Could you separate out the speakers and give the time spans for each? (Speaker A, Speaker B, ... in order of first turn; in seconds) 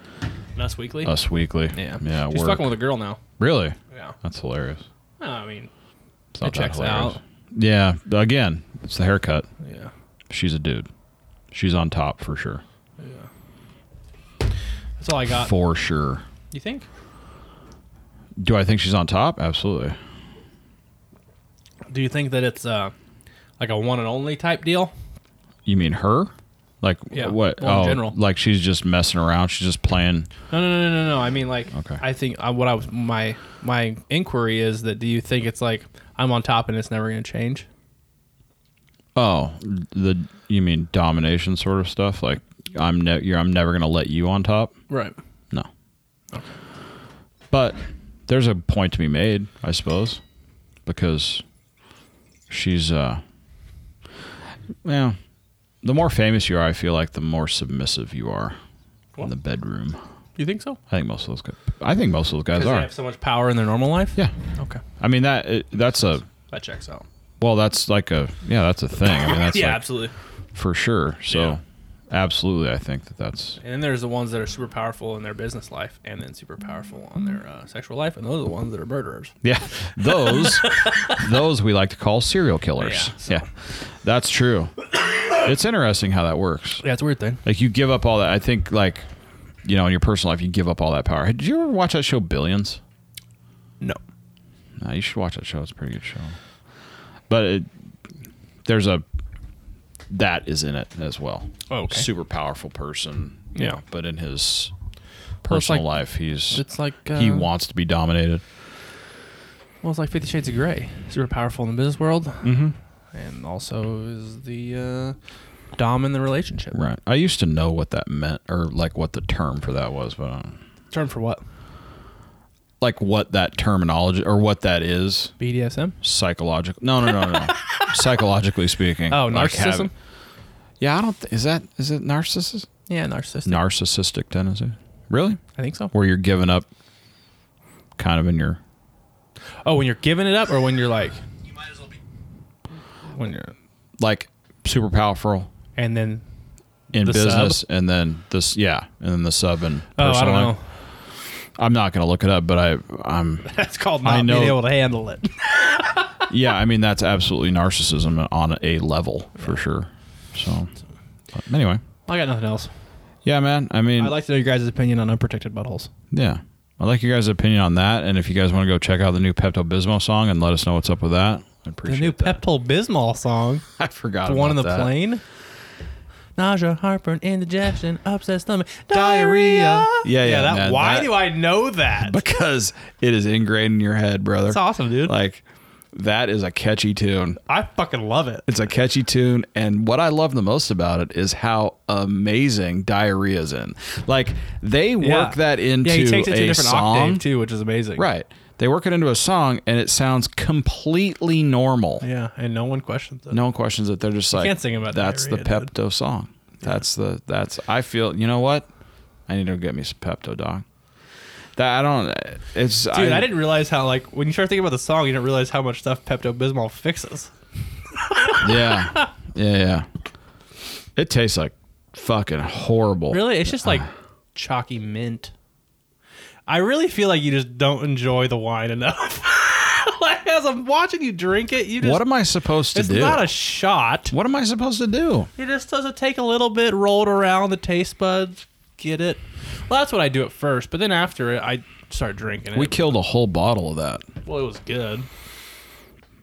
Speaker A: 0.6-1.1, 1.7-3.2, 3.9-4.2, 5.2-5.7, 6.4-7.2, 9.6-9.9, 13.0-13.3, 15.0-15.5, 16.5-16.9, 21.9-22.9, 23.6-24.9, 27.1-28.1, 30.5-37.6, 44.9-45.1, 60.4-60.8, 62.5-64.8, 66.5-67.0, 69.0-70.1, 71.3-71.6, 73.6-79.3, 80.1-81.2, 82.8-83.4, 86.8-87.4, 101.7-102.1, 103.5-103.8, 105.5-105.8, 106.5-107.5, 109.8-112.6, 113.1-115.2, 115.8-116.8, 120.9-121.4, 125.4-126.0, 129.1-129.9, 132.9-133.6, 135.6-135.9, 139.6-141.2, 143.0-143.5, 145.8-146.2, 146.9-147.6, 149.9-150.6, 153.4-156.2, 162.1-162.7, 164.0-165.9, 171.9-173.6, 174.2-175.2, 176.4-182.2, 184.5-185.1, 187.5-188.4, 195.0-198.1, 202.0-203.4, 204.3-205.7, 212.9-217.3, 218.0-219.1, 223.1-225.3, 226.5-232.0, 232.7-234.1, 235.4-242.9, 244.2-245.1
Speaker B: 1.0-2.7, 3.4-4.8, 6.3-9.5, 10.3-10.9, 11.5-12.6, 15.4-16.2, 18.4-19.9, 25.6-30.3, 31.7-32.0, 39.1-44.7, 47.5-50.2, 50.9-51.4, 52.5-53.2, 54.8-55.2, 55.8-58.5, 59.2-60.0, 60.9-62.9, 65.0-66.2, 67.4-69.8, 70.5-73.6, 79.4-86.8, 87.4-89.0, 89.6-92.8, 94.8-96.3, 97.3-97.7, 98.6-99.0, 100.1-104.7, 105.4-106.6, 107.1-108.4, 112.4-112.7, 116.7-120.6, 122.8-125.3, 126.0-129.9, 130.8-132.7, 133.4-135.4, 135.9-136.7, 138.0-138.6, 144.0-145.5, 146.9-150.5, 151.6-153.5, 154.0-154.6, 156.2-160.7, 161.3-161.8, 163.2-164.1, 166.1-172.4, 173.8-174.9, 178.9-181.2, 182.0-187.4, 188.4-197.2, 197.9-202.0, 203.3-208.7, 209.3-210.6, 211.6-213.3, 218.4-219.9, 220.9-223.8, 231.8-233.3, 234.1-235.3, 242.5-244.0